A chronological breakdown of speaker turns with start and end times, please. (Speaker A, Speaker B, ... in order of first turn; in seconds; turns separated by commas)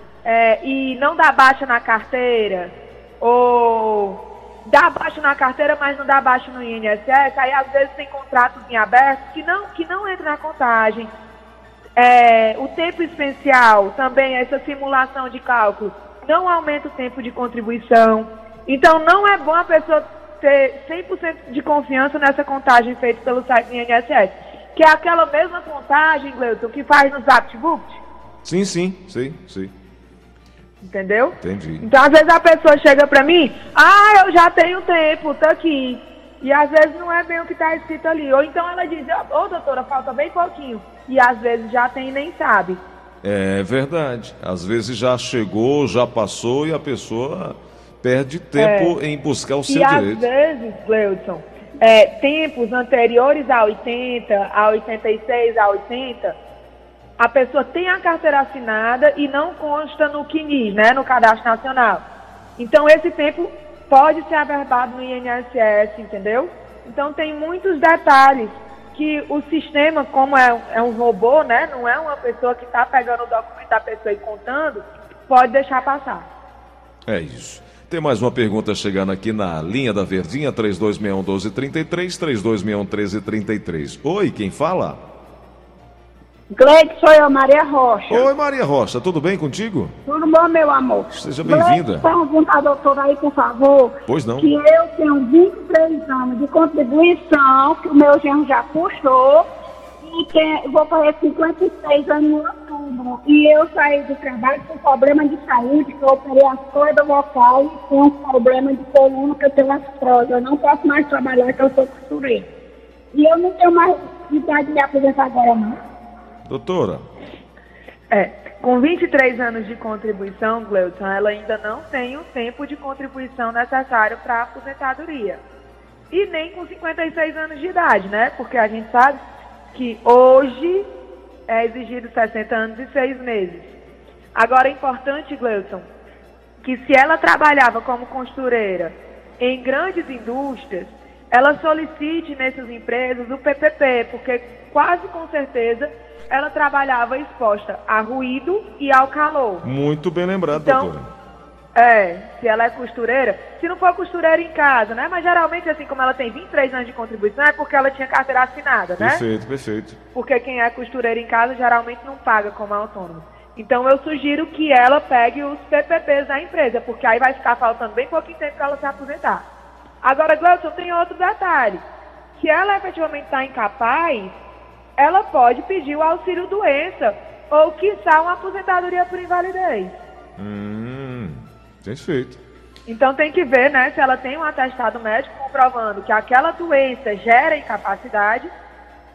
Speaker A: 0.2-11.1, Speaker A: 12.0-28.0, Speaker B: 28.4-29.7, Speaker A: 30.8-42.8, Speaker B: 31.4-31.8, Speaker B: 43.2-50.2, Speaker A: 48.6-49.0, Speaker A: 49.7-56.4, Speaker A: 57.2-62.0, Speaker A: 62.6-76.3, Speaker B: 77.1-85.0, Speaker C: 86.5-88.3, Speaker B: 88.1-89.9, Speaker C: 90.1-99.5, Speaker B: 91.1-92.1, Speaker B: 94.1-94.5, Speaker C: 100.0-112.4, Speaker C: 113.1-115.8, Speaker B: 116.5-117.0, Speaker A: 118.1-125.4, Speaker A: 126.1-129.2, Speaker A: 129.7-130.9, Speaker A: 131.5-133.7, Speaker A: 134.3-135.8, Speaker A: 136.6-149.7, Speaker B: 149.6-151.1, Speaker A: 150.5-150.9, Speaker A: 151.7-159.2, Speaker B: 159.0-160.0, Speaker A: 160.1-169.4, Speaker A: 170.0-171.8, Speaker A: 172.3-174.4, Speaker A: 175.0-180.0, Speaker B: 180.4-182.4, Speaker A: 182.9-188.5